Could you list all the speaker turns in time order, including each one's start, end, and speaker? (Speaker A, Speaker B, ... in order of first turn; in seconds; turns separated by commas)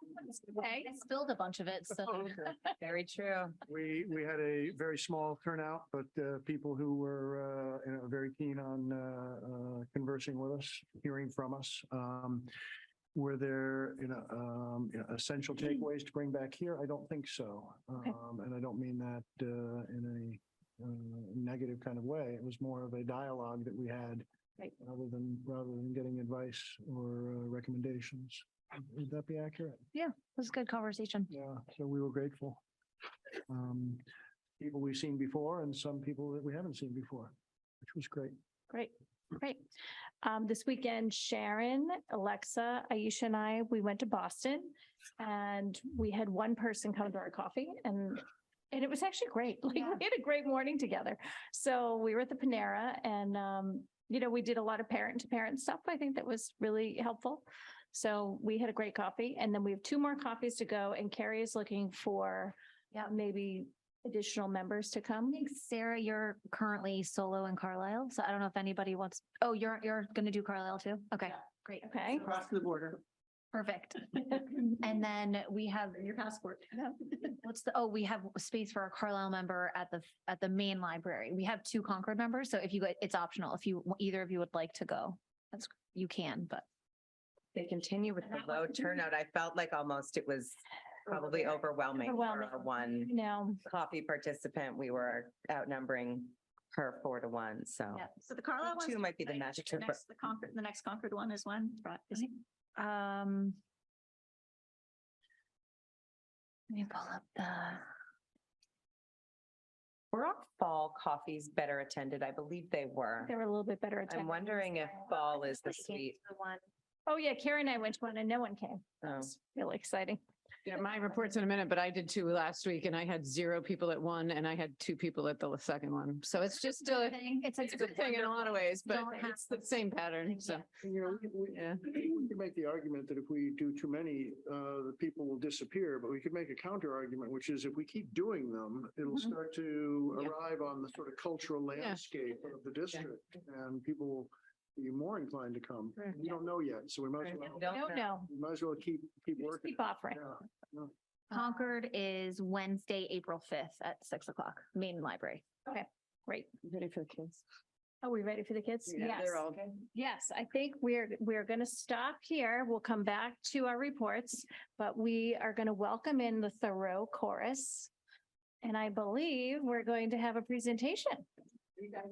Speaker A: 0.5-2.5, Speaker B: 2.0-2.5, Speaker C: 2.8-3.6, Speaker B: 3.6-12.5, Speaker B: 13.1-24.2, Speaker B: 24.8-29.8, Speaker A: 29.9-31.3, Speaker B: 31.3-32.6, Speaker B: 33.5-34.0, Speaker B: 34.6-38.4, Speaker D: 38.7-39.6, Speaker D: 40.2-65.4, Speaker A: 65.3-72.5, Speaker D: 71.8-72.2, Speaker A: 73.5-76.1, Speaker E: 76.0-77.1, Speaker A: 77.3-86.6, Speaker C: 87.5-93.1, Speaker D: 91.3-93.6, Speaker C: 93.6-98.0, Speaker E: 98.2-102.3, Speaker C: 98.6-100.0, Speaker A: 102.8-103.6, Speaker A: 106.7-107.8, Speaker C: 110.1-113.3, Speaker D: 113.2-115.1, Speaker C: 114.1-116.2, Speaker A: 115.3-116.6, Speaker D: 117.1-120.2, Speaker C: 119.0-119.3, Speaker F: 120.7-130.7, Speaker A: 126.5-130.6, Speaker B: 130.8-150.9, Speaker F: 131.5-131.8, Speaker C: 147.4-148.1, Speaker D: 147.7-148.3, Speaker D: 149.4-150.2, Speaker A: 151.3-155.4, Speaker D: 155.7-156.5, Speaker F: 156.6-157.4, Speaker D: 158.0-167.9, Speaker F: 158.9-159.7, Speaker D: 168.6-171.3